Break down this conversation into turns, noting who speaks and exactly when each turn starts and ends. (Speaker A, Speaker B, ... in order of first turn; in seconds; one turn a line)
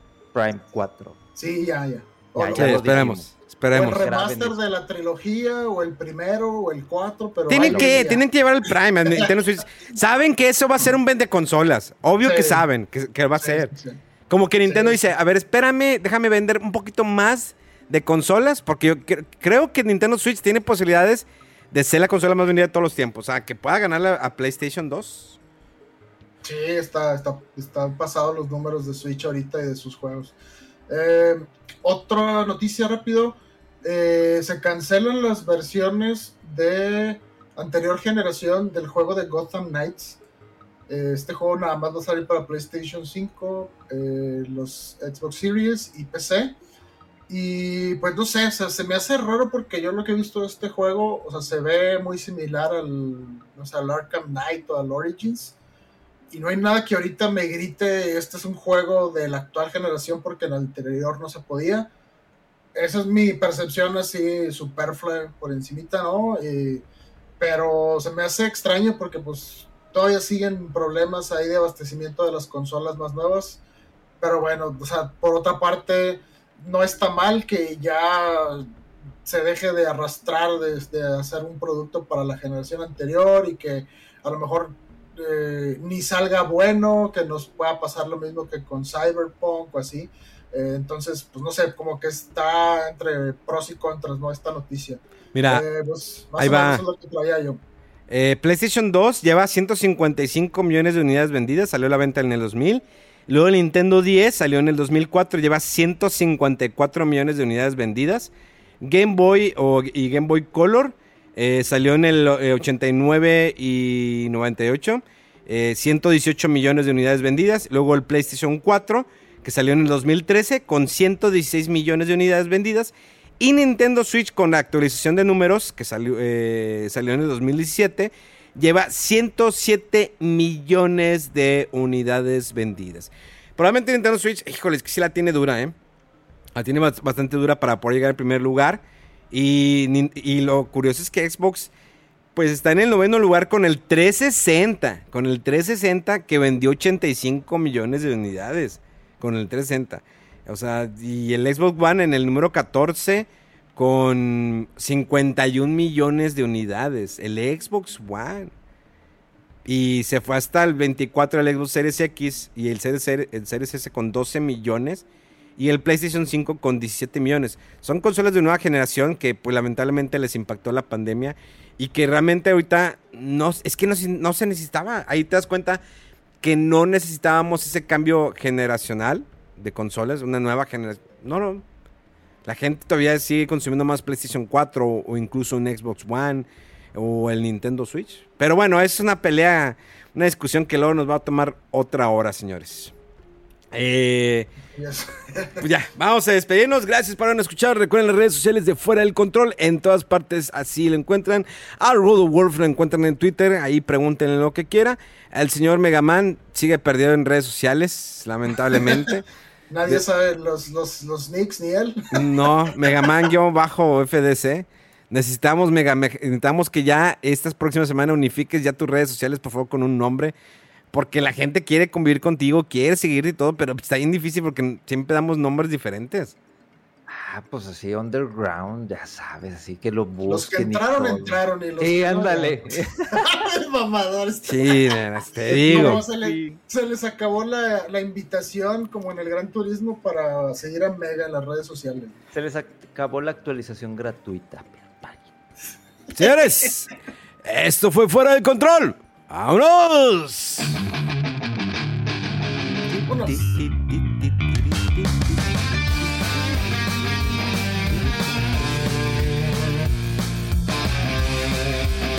Speaker A: 0.3-1.2
Speaker B: 1.4-3.1
Speaker A: 2.4-3.3
Speaker C: 2.5-4.1
Speaker B: 3.7-8.2
Speaker A: 3.8-4.6
Speaker C: 7.5-13.7
Speaker A: 7.6-8.0
Speaker B: 12.2-12.6
Speaker B: 13.3-14.0
Speaker C: 14.3-25.4
Speaker B: 14.7-15.1
Speaker B: 26.4-30.4
Speaker B: 30.9-40.2
Speaker B: 40.9-46.6
Speaker B: 47.3-55.6
Speaker B: 56.3-61.9
Speaker B: 62.8-66.9
Speaker B: 67.4-73.6
Speaker B: 74.2-78.7
Speaker B: 79.2-97.6
Speaker C: 95.3-95.7
Speaker C: 96.4-96.8
Speaker C: 98.1-135.8
Speaker C: 136.6-141.7
Speaker C: 142.3-158.5
Speaker C: 159.7-165.1
Speaker C: 165.6-175.8
Speaker C: 176.4-181.7
Speaker C: 182.4-192.9
Speaker C: 193.7-194.5
Speaker B: 194.7-195.6
Speaker C: 195.6-209.2
Speaker B: 209.7-213.1
Speaker C: 212.1-220.3
Speaker C: 220.9-226.3
Speaker A: 227.1-233.2
Speaker B: 230.2-232.6
Speaker B: 233.1-242.2
Speaker C: 234.5-236.0
Speaker A: 235.6-236.6
Speaker A: 242.3-245.3
Speaker C: 246.2-246.9
Speaker C: 247.4-250.8
Speaker C: 252.7-257.2
Speaker B: 253.1-253.5
Speaker C: 257.9-258.6